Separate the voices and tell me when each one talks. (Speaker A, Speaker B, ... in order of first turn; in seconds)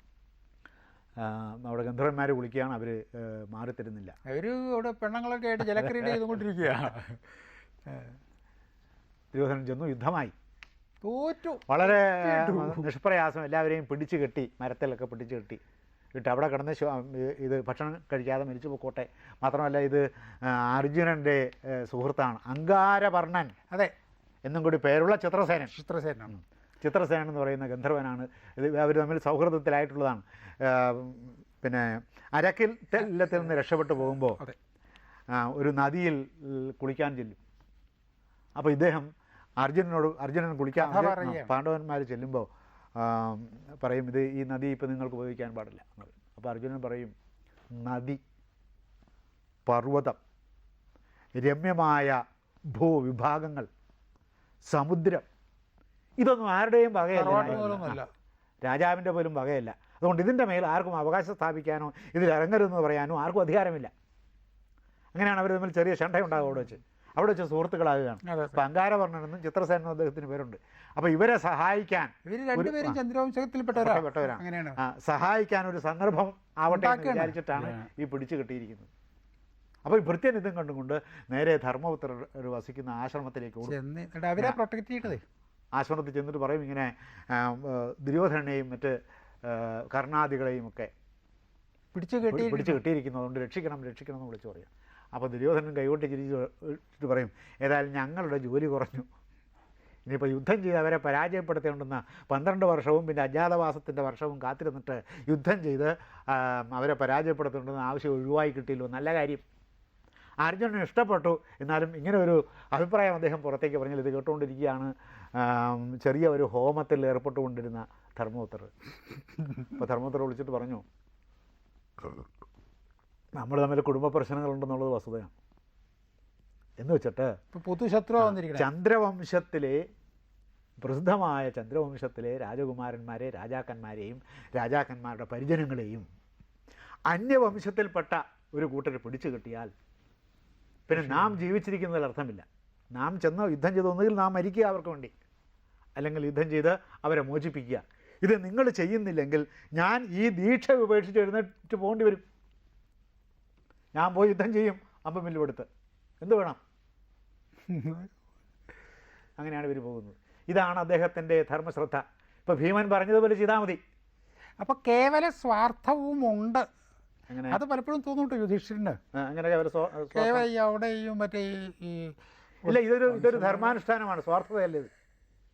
Speaker A: 1.2-4.2, 9.3-10.3, 11.7-15.6, 16.1-23.5, 24.4-25.7, 26.3-34.4, 35.3-37.4, 38.5-39.1, 39.6-47.1, 47.7-48.2, 49.6-50.2, 51.4-53.7, 54.7-55.2, 56.2-58.0, 58.6-63.9, 65.1-73.0, 73.7-78.9, 79.8-83.8, 85.7-90.9, 92.2-99.1, 100.0-109.4, 110.4-118.7, 119.6-120.8, 123.3-125.3, 126.8-127.4, 128.2-129.8, 130.8-136.1, 137.1-139.7, 140.9-145.1, 146.0-152.2, 153.9-155.7, 156.2-156.6, 159.4-163.8, 167.3-167.6, 169.1-170.5, 172.6-174.9
Speaker B: 4.2-7.2, 11.0-12.8, 25.7-26.4, 40.8-41.5, 57.1-58.1, 68.2-68.6, 72.2-74.8, 76.7-77.9, 83.6-85.2, 91.9-92.8, 127.5-128.7, 157.7-158.1, 164.6-166.7, 167.5-169.0, 170.1-173.8